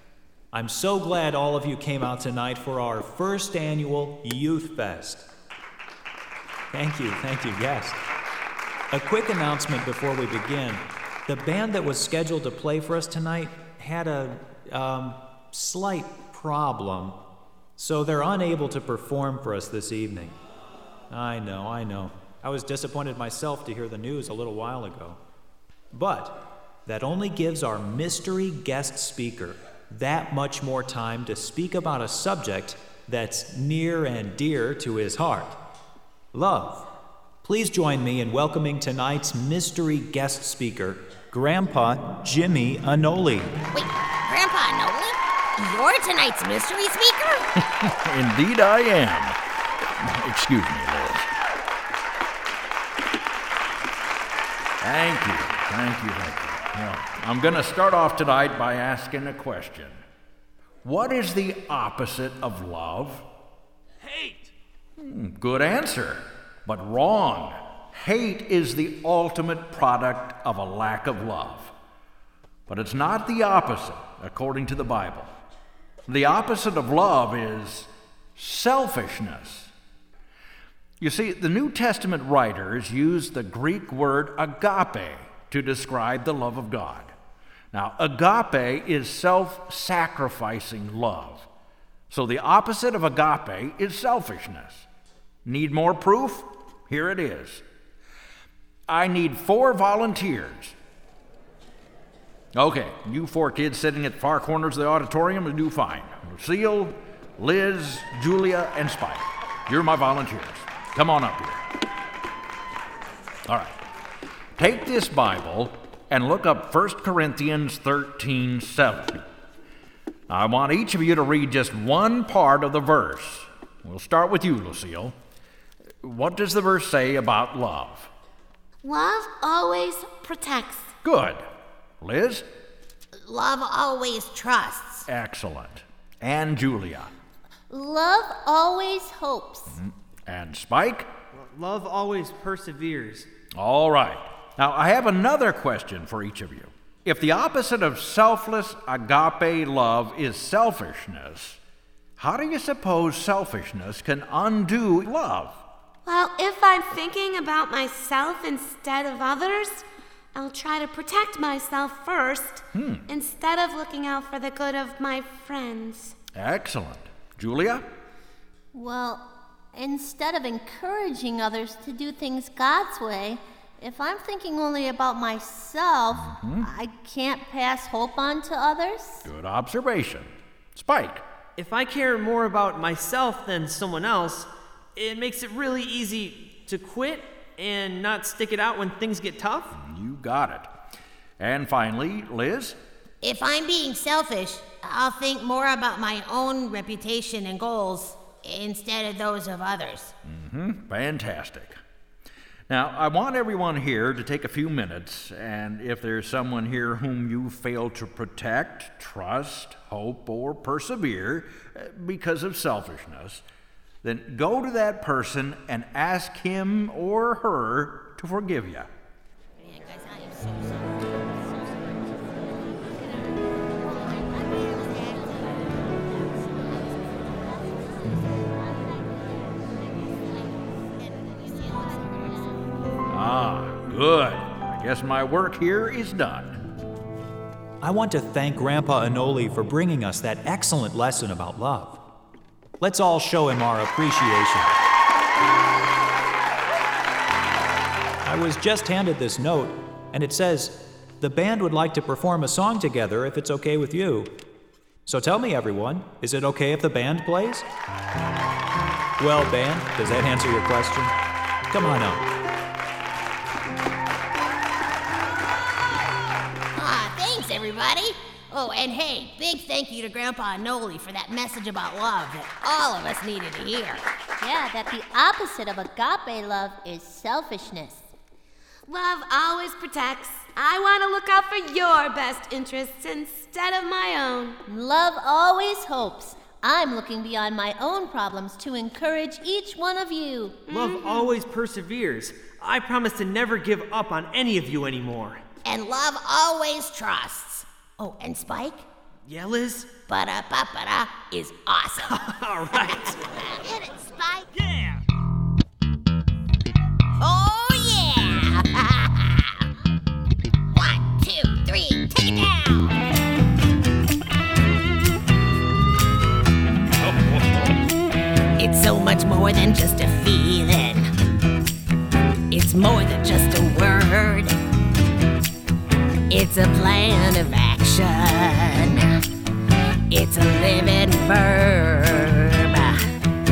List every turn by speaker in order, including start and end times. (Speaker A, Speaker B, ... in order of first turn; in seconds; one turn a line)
Speaker A: 0.5-5.3
Speaker A: 6.7-8.0
Speaker A: 8.9-17.2
Speaker A: 17.8-20.3
Speaker A: 21.1-25.2
Speaker A: 25.9-35.6
Speaker A: 36.3-36.9
Speaker A: 37.4-43.6
Speaker B: 43.7-47.5
Speaker C: 47.6-49.4
Speaker C: 50.0-51.3
Speaker C: 54.8-60.0
Speaker C: 60.8-63.2
Speaker D: 64.0-64.5
Speaker C: 65.0-71.7
Speaker C: 72.7-75.3
Speaker C: 76.1-79.7
Speaker C: 81.0-87.1
Speaker C: 87.7-91.5
Speaker C: 92.1-94.8
Speaker C: 95.5-97.6
Speaker C: 98.9-100.7
Speaker C: 102.5-111.6
Speaker C: 113.5-113.8
Speaker C: 114.6-119.2
Speaker C: 120.3-125.1
Speaker C: 126.0-128.1
Speaker E: 128.8-130.9
Speaker C: 131.0-131.4
Speaker C: 132.0-132.4
Speaker B: 133.2-135.1
Speaker C: 135.1-137.1
Speaker F: 137.7-139.7
Speaker C: 139.8-141.1
Speaker D: 141.3-143.3
Speaker C: 143.6-151.6
Speaker C: 152.2-155.6
Speaker E: 156.0-166.2
Speaker C: 162.7-163.0
Speaker C: 166.3-167.8
Speaker F: 168.7-179.2
Speaker C: 176.2-176.7
Speaker C: 179.2-181.2
Speaker D: 181.6-189.8
Speaker C: 189.8-190.7
Speaker C: 191.4-192.8
Speaker B: 193.2-200.1
Speaker C: 200.2-201.8
Speaker C: 202.7-213.4
Speaker C: 214.0-218.9
Speaker B: 219.6-221.2
Speaker B: 223.8-227.3
Speaker B: 231.0-232.7
Speaker C: 233.1-236.6
Speaker A: 237.8-242.0
Speaker A: 242.8-244.8
Speaker A: 248.2-254.3
Speaker A: 255.1-257.6
Speaker A: 259.2-261.1
Speaker A: 261.7-262.3
Speaker B: 266.7-274.0
Speaker F: 274.4-278.1
Speaker E: 278.9-284.6
Speaker F: 284.7-290.6
Speaker E: 290.7-291.3
Speaker D: 290.7-295.4
Speaker B: 295.6-298.9
Speaker D: 299.3-299.9
Speaker B: 300.0-302.3
Speaker D: 302.1-303.2
Speaker B: 302.9-304.5
Speaker D: 304.5-305.0
Speaker B: 307.2-309.7
Speaker B: 310.7-313.0
Speaker B: 318.6-321.1
Speaker B: 322.5-324.5
Speaker B: 326.3-329.2
Speaker B: 330.1-333.1